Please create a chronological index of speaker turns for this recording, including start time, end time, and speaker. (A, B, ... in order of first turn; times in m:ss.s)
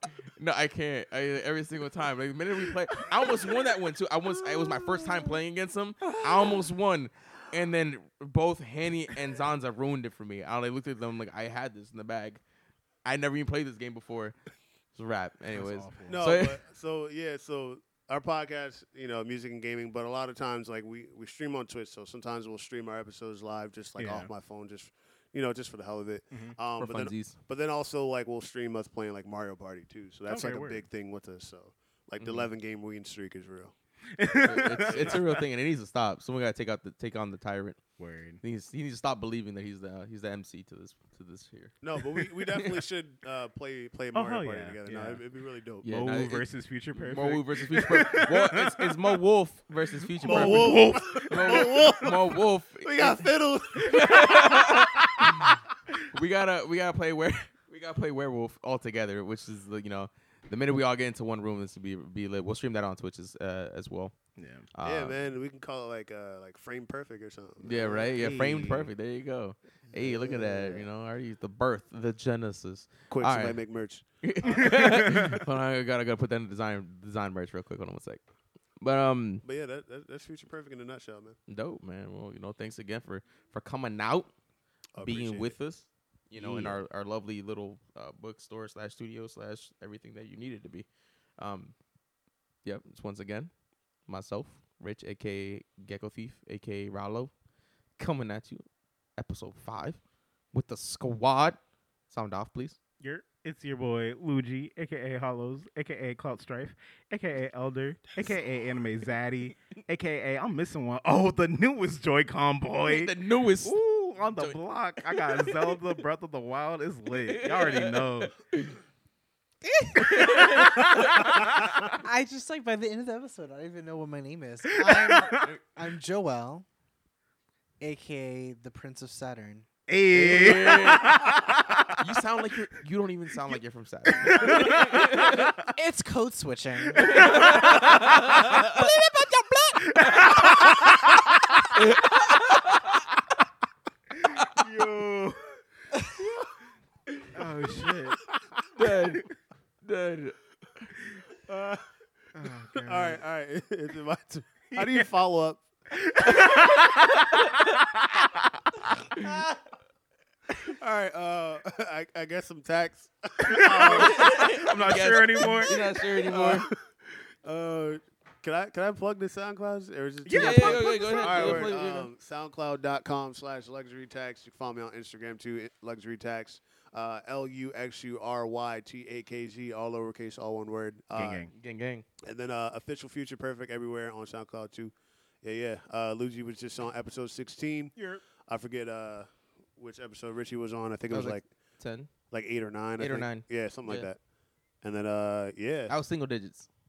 0:00.3-0:12.4 A
0:13.0-0:14.4 A
0:15.0-0:16.6 A
0:15.5-0:16.2 B
0:16.1-0:33.7 C
0:24.0-0:24.3 B
0:26.8-0:27.4 A
0:30.3-0:30.8 B
0:32.2-0:32.5 A
0:34.2-0:35.4 B
0:34.4-0:37.8 A
0:34.9-0:35.2 C
0:38.0-0:38.4 B
0:38.4-0:41.8 A
0:41.8-0:45.9 C
0:44.1-0:45.2 B
0:45.8-0:53.3 A
0:45.8-0:49.0 B
0:50.2-0:51.8 B
0:50.2-0:55.3 C
0:53.8-0:55.6 A
0:56.1-1:04.2 A
1:04.4-1:04.7 B
1:04.7-1:05.2 A
1:04.8-1:08.8 C
1:07.6-1:13.6 A
1:08.2-1:08.9 B
1:09.9-1:10.9 C
1:13.1-1:14.9 C
1:14.2-1:18.2 A
1:14.6-1:15.4 B
1:18.8-1:19.4 A
1:19.4-1:21.4 C
1:21.5-1:24.3 A
1:25.0-1:25.6 C
1:25.0-1:30.9 A
1:26.4-1:26.8 C
1:31.4-1:31.7 A
1:32.6-1:33.5 A
1:34.1-1:37.3 A
1:38.0-1:38.7 A
1:39.2-1:40.0 A
1:40.5-1:42.8 A
1:43.0-1:58.3 B
1:52.9-1:55.8 A
1:57.2-1:58.8 A
1:59.6-2:00.3 D
2:00.0-2:01.3 A
2:00.2-2:01.3 B
2:02.0-2:06.7 D
2:04.8-2:05.5 B
2:07.8-2:09.7 D
2:09.9-2:12.1 B
2:10.1-2:11.4 A
2:12.0-2:15.6 A
2:14.1-2:15.5 B
2:15.7-2:17.8 D
2:17.0-2:18.6 B
2:17.0-2:18.8 A
2:18.4-2:19.9 D
2:19.9-2:21.2 B
2:21.8-2:23.0 A
2:24.2-2:25.6 B
2:27.3-2:28.2 B
2:28.8-2:29.3 A
2:29.8-2:30.4 A
2:31.5-2:31.8 C
2:32.4-2:33.2 B
2:32.8-2:35.6 C
2:34.7-2:35.1 B
2:36.0-2:37.5 B
2:36.2-2:36.7 C
2:40.6-2:44.6 C
2:43.4-2:45.8 B
2:43.8-2:46.7 A
2:45.4-2:46.7 C
2:47.4-3:01.4 C
2:50.2-2:51.7 B
2:50.3-2:52.1 A
3:01.1-3:01.5 B
3:01.5-3:02.0 A
3:02.2-3:11.5 C
3:08.0-3:08.2 B
3:11.1-3:12.1 A
3:12.3-3:14.2 C
3:13.0-3:14.1 A
3:14.8-3:16.0 C
3:15.9-3:16.7 A